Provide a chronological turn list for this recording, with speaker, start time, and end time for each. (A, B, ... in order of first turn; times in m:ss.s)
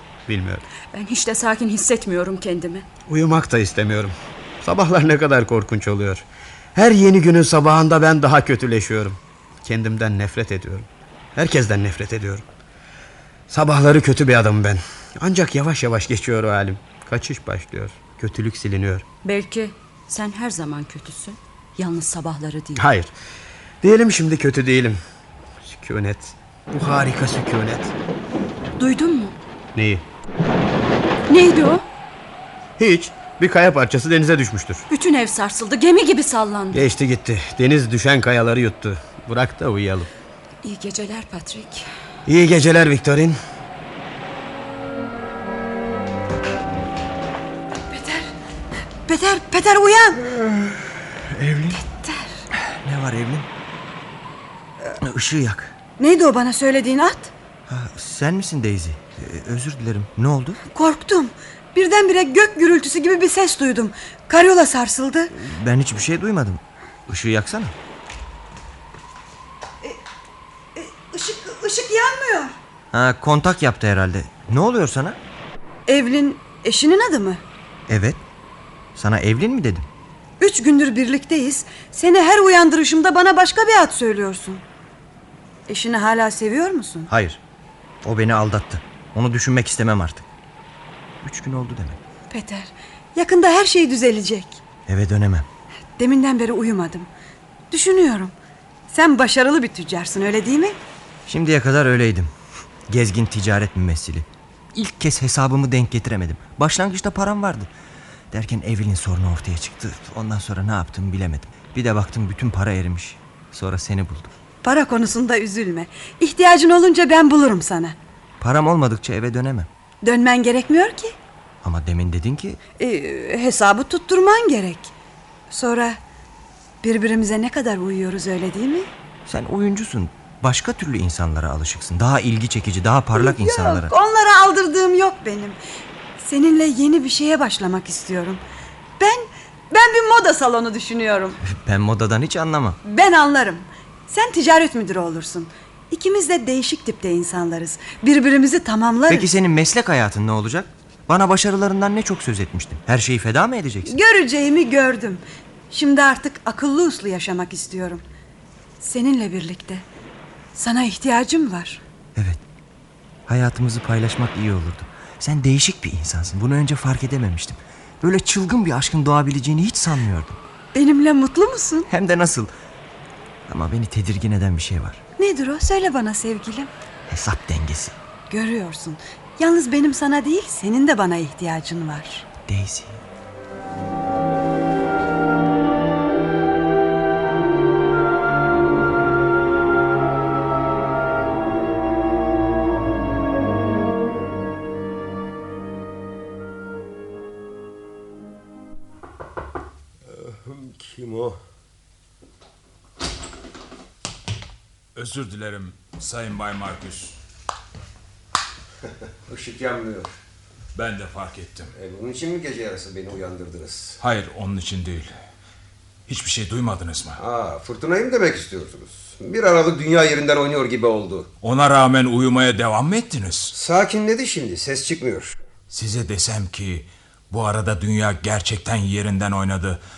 0:00.3-0:00.6 A
0:00.9-0:02.8 B
0:03.1-0:12.4 A
0:13.5-0:19.0 A
0:19.2-0:22.8 B
0:22.8-0:23.1 A
0:23.8-0:25.0 A
0:25.6-0:27.9 A
0:28.8-0:29.4 B
0:29.7-0:30.0 A
0:31.3-0:31.8 B
0:32.8-0:34.8 A
0:34.9-0:36.8 B
0:36.7-0:40.1 A
0:40.6-0:41.8 B
0:42.2-0:43.4 A
0:47.9-0:48.3 C
0:49.0-0:50.2 C
0:50.3-0:51.8 D
0:51.7-0:52.3 C
0:52.8-0:53.5 D
0:55.0-0:55.7 D
0:56.0-0:57.3 C
0:57.7-1:00.6 D
1:00.7-1:05.3 C
1:05.3-1:07.7 D
1:10.7-1:12.6 C
1:12.9-1:15.2 D
1:15.9-1:17.4 C
1:17.9-1:18.2 D
1:18.9-1:19.9 D
1:20.4-1:24.6 C
1:25.7-1:27.1 C
1:27.1-1:27.4 D
1:28.0-1:30.2 D
1:31.2-1:32.0 D
1:32.3-1:34.6 C
1:34.9-1:35.5 D
1:36.0-1:37.1 C
1:37.7-1:38.3 C
1:38.9-1:40.8 C
1:41.3-1:42.3 D
1:42.9-1:47.7 D
1:48.3-1:54.3 D
1:54.6-1:58.0 C
1:58.4-1:59.7 D
2:00.0-2:01.2 C
2:01.6-2:02.6 D
2:02.8-2:04.9 C
2:05.5-2:06.0 C
2:06.8-2:08.9 C
2:09.2-2:13.9 D
2:13.1-2:15.6 C
2:16.2-2:18.4 C
2:19.0-2:21.4 C
2:21.4-2:22.8 D
2:22.8-2:29.3 C
2:29.1-2:33.9 D
2:33.8-2:38.0 C
2:38.8-2:39.8 C
2:40.5-2:41.8 C
2:43.3-2:50.4 D
2:50.7-2:51.9 C
2:51.9-2:52.5 D
2:53.5-2:55.0 D
2:55.2-2:56.7 C
2:57.1-2:58.0 D
2:58.3-3:02.2 C
3:02.5-3:03.0 D
3:20.0-3:21.4 E
3:24.9-3:27.2 F
3:29.3-3:30.1 E
3:30.7-3:31.7 F
3:31.7-3:34.0 E
3:34.0-3:35.1 F
3:36.1-3:37.2 F
3:37.2-3:41.3 E
3:41.4-3:43.5 F
3:43.5-3:45.4 E
3:45.7-3:49.8 F